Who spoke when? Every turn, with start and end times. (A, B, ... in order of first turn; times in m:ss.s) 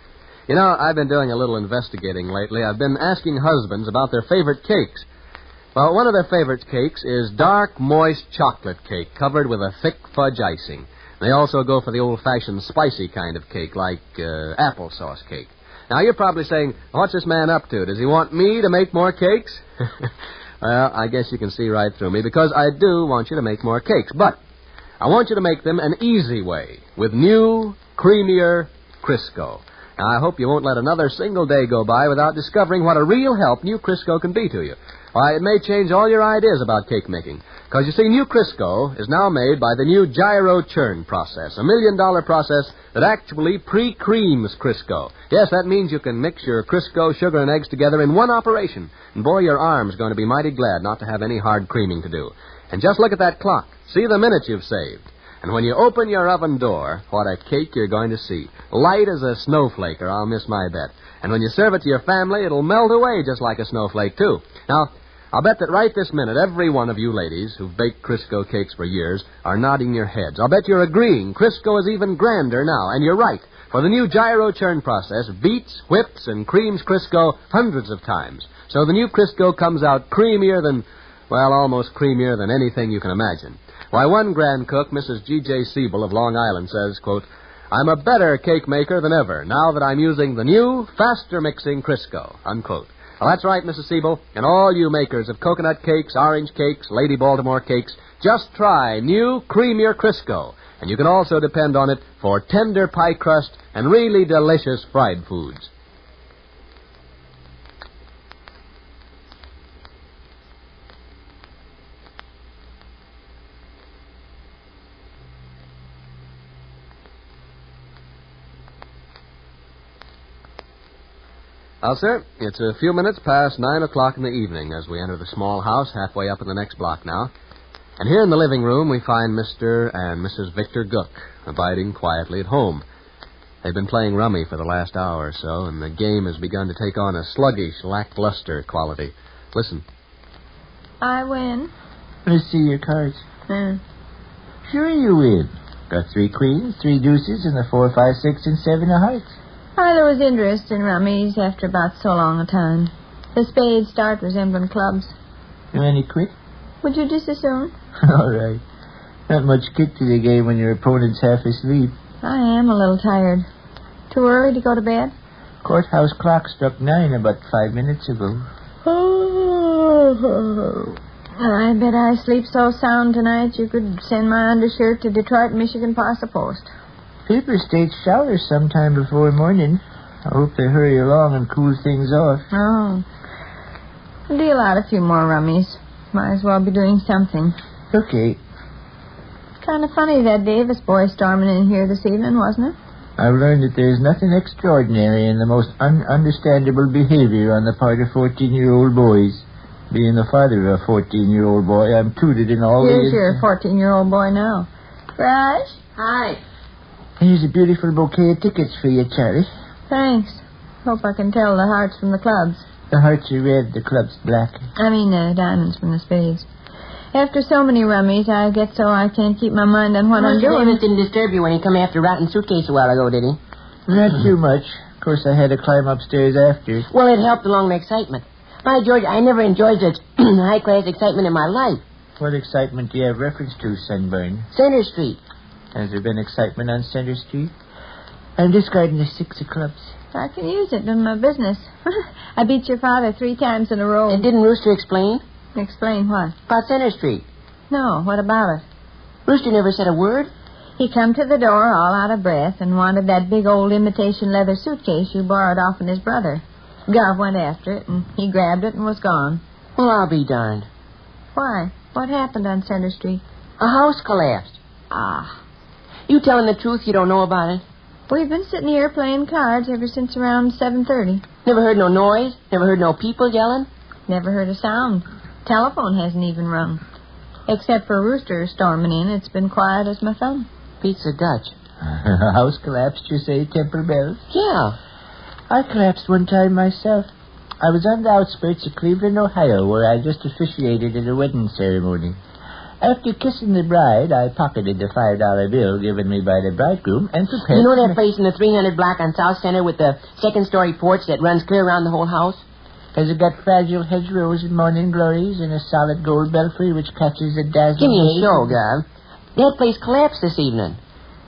0:00.5-0:05.1 A
0:05.8-0:24.4 A
0:25.0-1:45.7 A
2:01.8-2:07.3 A
2:08.0-2:12.8 A
2:13.6-2:19.8 A
2:21.0-2:21.7 B
2:22.3-2:23.2 C
2:23.5-2:23.8 B
2:24.6-2:29.4 C
2:29.8-2:35.1 B
2:35.7-2:36.3 C
2:36.8-2:37.7 B
2:38.0-2:38.6 C
2:39.3-2:41.9 C
2:42.2-2:43.4 B
2:44.1-2:45.1 B
2:45.6-2:50.9 C
2:51.4-2:56.7 B
2:57.3-3:02.5 C
3:02.5-3:03.0 B
3:04.3-3:07.6 B
3:07.9-3:08.4 C
3:09.6-3:12.8 B
3:13.2-3:23.4 C
3:22.8-3:25.8 B
3:26.0-3:26.4 D
3:27.2-3:29.5 C
3:29.9-3:32.6 B
3:32.9-3:34.7 C
3:34.8-3:36.5 B
3:37.1-3:40.8 B
3:40.2-3:43.4 D
3:43.9-3:46.9 C
3:46.9-3:51.8 D
3:52.2-3:54.5 C
3:54.5-3:55.2 D
3:55.7-3:57.5 C
3:58.4-3:59.9 C
4:00.1-4:04.2 B
4:04.1-4:05.2 D
4:05.6-4:06.4 B
4:06.5-4:07.3 D
4:07.7-4:08.6 B
4:09.3-4:10.3 D
4:10.8-4:19.4 B
4:19.8-4:20.7 D
4:21.4-4:23.2 B
4:23.6-4:24.6 D
4:24.9-4:25.4 B
4:26.1-4:27.6 D
4:28.1-4:31.2 B
4:31.4-4:33.7 D
4:34.1-4:36.8 B
4:37.5-4:40.5 B
4:40.8-4:41.5 D
4:41.8-4:44.2 C
4:44.3-4:44.8 D
4:45.5-4:47.1 C
4:47.6-4:52.2 C
4:52.8-4:58.0 C
4:57.5-5:02.4 D
5:03.0-5:08.6 C
5:07.8-5:08.8 D
5:09.4-5:10.8 D